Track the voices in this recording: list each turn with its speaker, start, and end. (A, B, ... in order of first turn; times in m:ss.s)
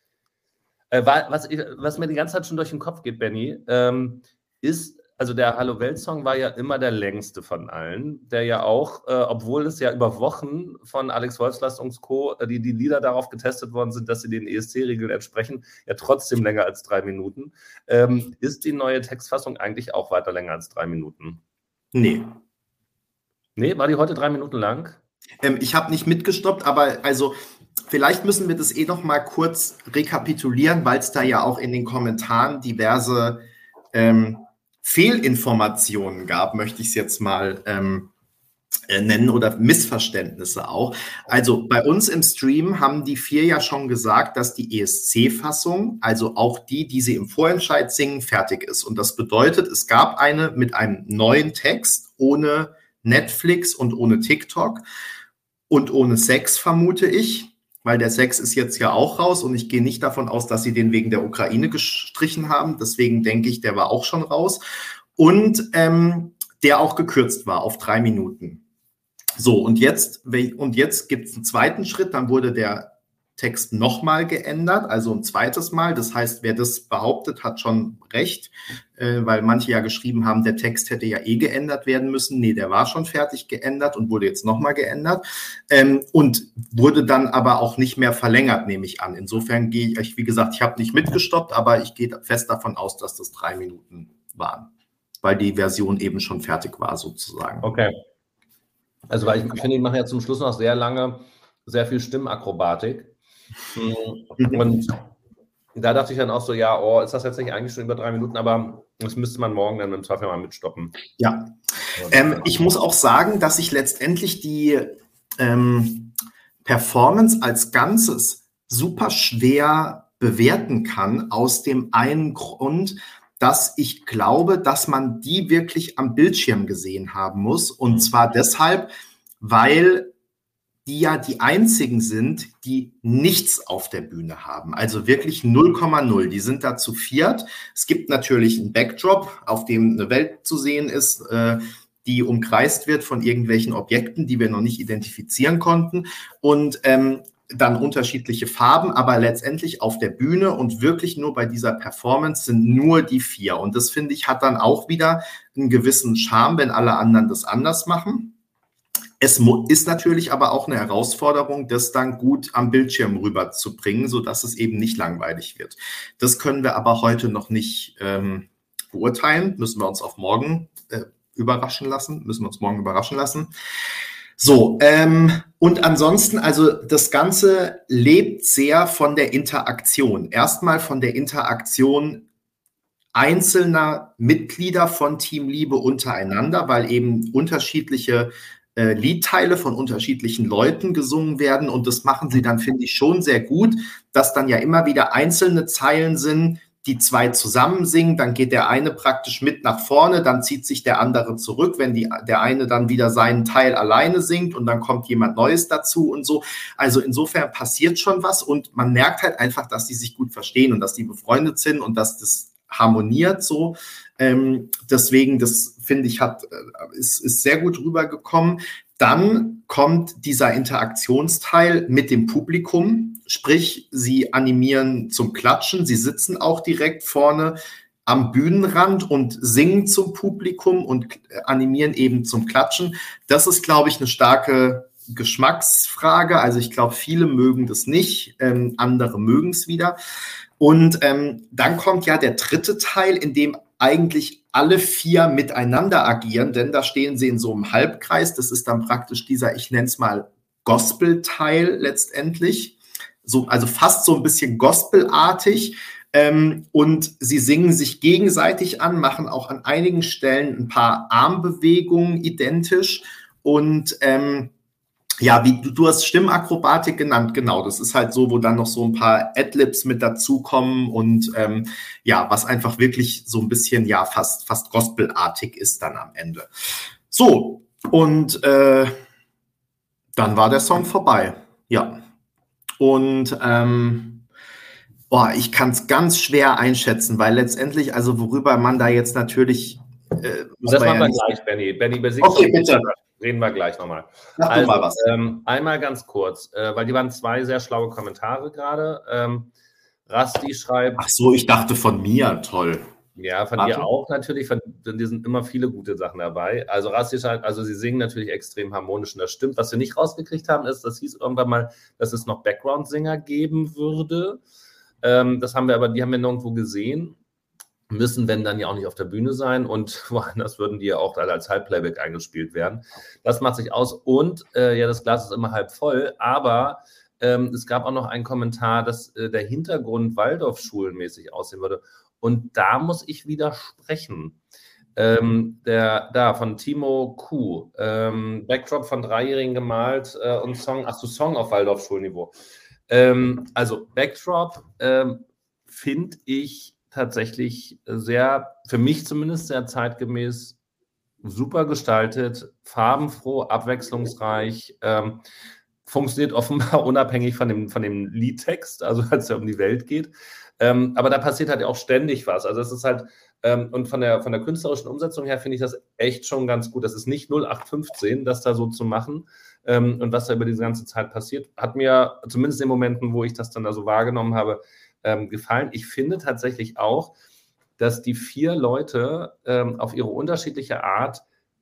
0:00.9-0:21.4 A
0:21.9-0:22.4 B
0:23.6-0:25.0 A
0:25.4-0:27.3 B
0:27.9-0:38.1 B
0:38.9-0:54.8 B
0:55.7-1:04.6 B
1:05.2-1:08.6 B
1:09.4-1:34.7 B
1:35.2-1:37.7 B
1:37.6-1:37.9 A
1:39.1-1:43.1 A
1:43.7-1:45.0 A
1:44.4-1:44.6 B
1:45.7-1:51.0 A
1:51.2-2:10.1 B
2:10.8-2:38.3 B
2:39.2-2:53.5 B
2:54.4-3:02.3 B
3:03.1-4:00.0 B
4:00.6-4:24.5 B
4:25.2-4:36.5 B
4:37.1-4:38.9 B
4:40.2-4:42.0 B
4:42.8-4:44.2 B
4:45.1-4:51.3 B
4:50.7-4:59.5 A
4:52.2-4:52.9 B
4:54.4-4:55.2 B
5:00.1-5:01.0 A
5:01.0-5:02.8 B
5:03.2-5:14.4 A
5:03.6-5:03.9 B
5:15.0-5:17.2 A
5:17.9-5:34.4 A
5:35.0-5:42.3 A
5:42.9-5:50.6 A
5:51.2-5:55.2 A
5:55.8-6:17.1 A
6:17.8-6:21.2 A